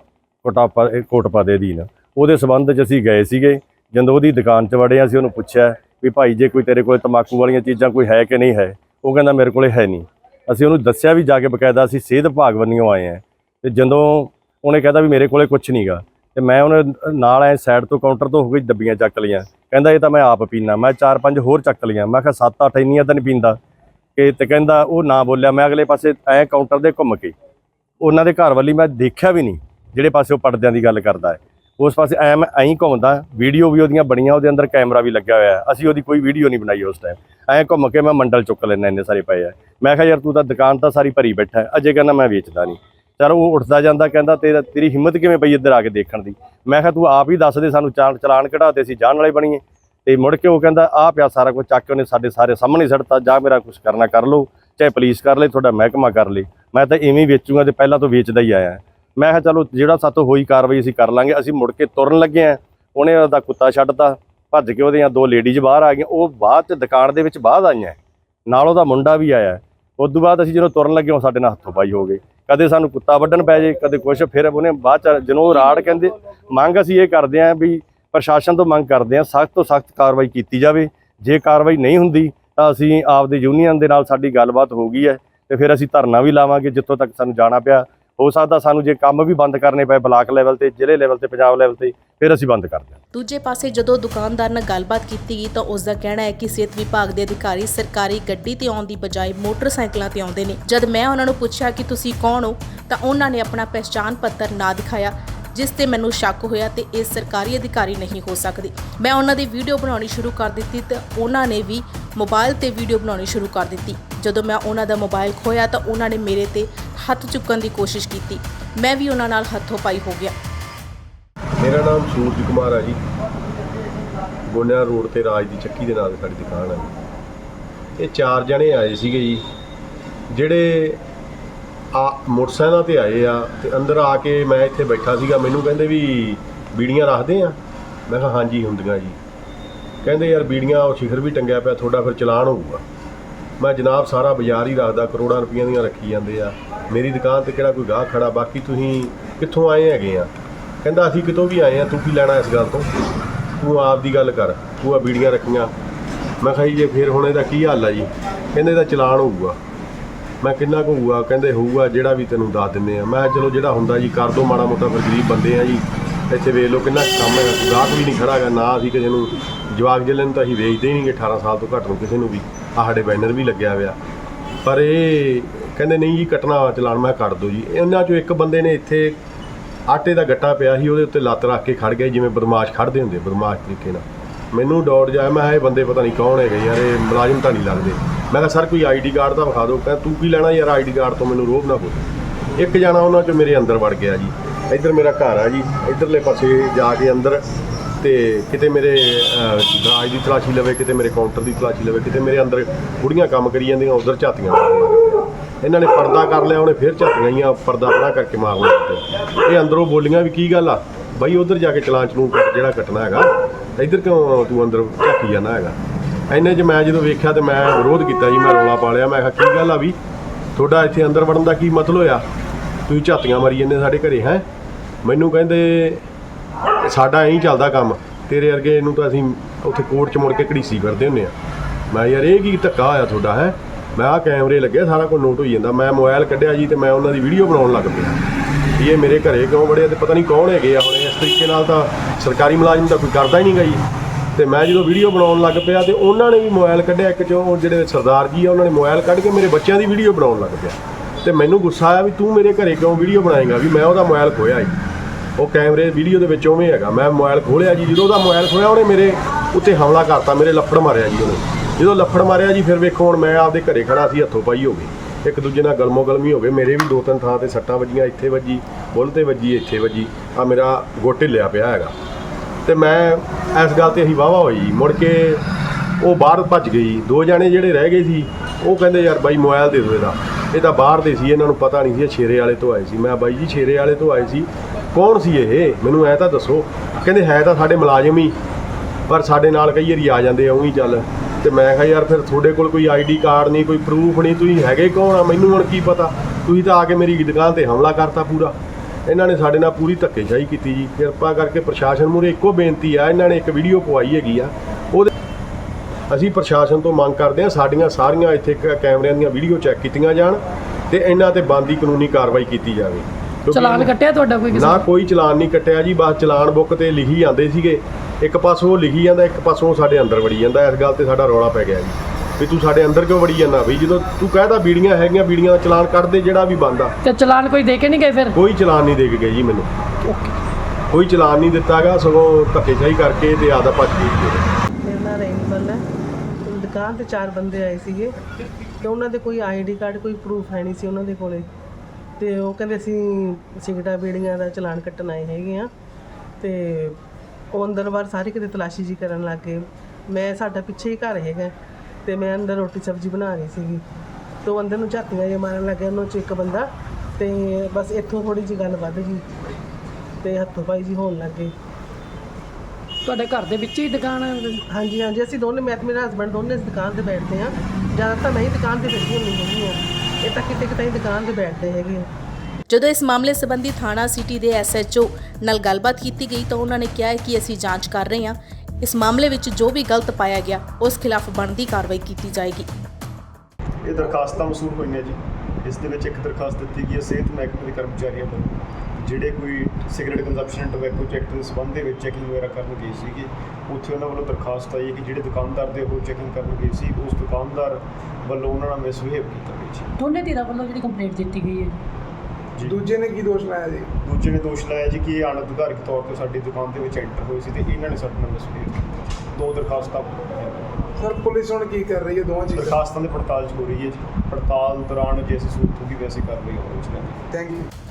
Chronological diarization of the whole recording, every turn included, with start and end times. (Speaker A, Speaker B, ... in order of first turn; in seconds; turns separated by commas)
Speaker A: 0.4-23.6, Speaker A: 24.1-27.3, Speaker A: 28.0-93.0, Speaker B: 93.1-120.3, Speaker C: 121.6-123.0, Speaker C: 124.5-126.9, Speaker C: 128.0-129.4, Speaker C: 130.3-131.0, Speaker C: 131.9-139.2, Speaker C: 140.0-142.8, Speaker C: 143.6-150.3, Speaker C: 150.8-152.9, Speaker C: 153.6-155.7, Speaker C: 156.4-159.6, Speaker C: 160.4-174.0, Speaker C: 174.6-179.2, Speaker C: 179.9-192.0, Speaker C: 192.6-197.4, Speaker C: 198.0-215.8, Speaker C: 216.3-220.0, Speaker C: 220.6-222.2, Speaker C: 222.9-224.4, Speaker C: 225.0-226.0, Speaker C: 226.8-231.3, Speaker C: 231.9-238.2, Speaker C: 238.8-243.8, Speaker C: 244.3-254.8, Speaker C: 255.4-271.9, Speaker C: 272.6-275.4, Speaker C: 276.0-288.4, Speaker C: 289.1-305.1, Speaker C: 306.1-313.9, Speaker D: 313.5-314.9, Speaker C: 314.5-326.9, Speaker D: 327.0-328.4, Speaker C: 328.4-329.7, Speaker C: 330.9-334.4, Speaker E: 334.8-335.8, Speaker E: 336.4-338.1, Speaker E: 338.8-341.4, Speaker E: 342.2-345.7, Speaker E: 346.4-347.0, Speaker E: 347.5-351.5, Speaker E: 352.0-353.8, Speaker E: 354.4-359.2, Speaker E: 360.2-361.5, Speaker D: 363.0-364.6, Speaker E: 364.7-372.1, Speaker B: 372.7-382.7, Speaker F: 383.8-399.9, Speaker D: 400.0-401.7, Speaker F: 402.5-402.9, Speaker G: 402.7-403.9, Speaker F: 403.9-410.7, Speaker G: 411.0-412.8, Speaker F: 412.5-417.2, Speaker G: 417.3-417.7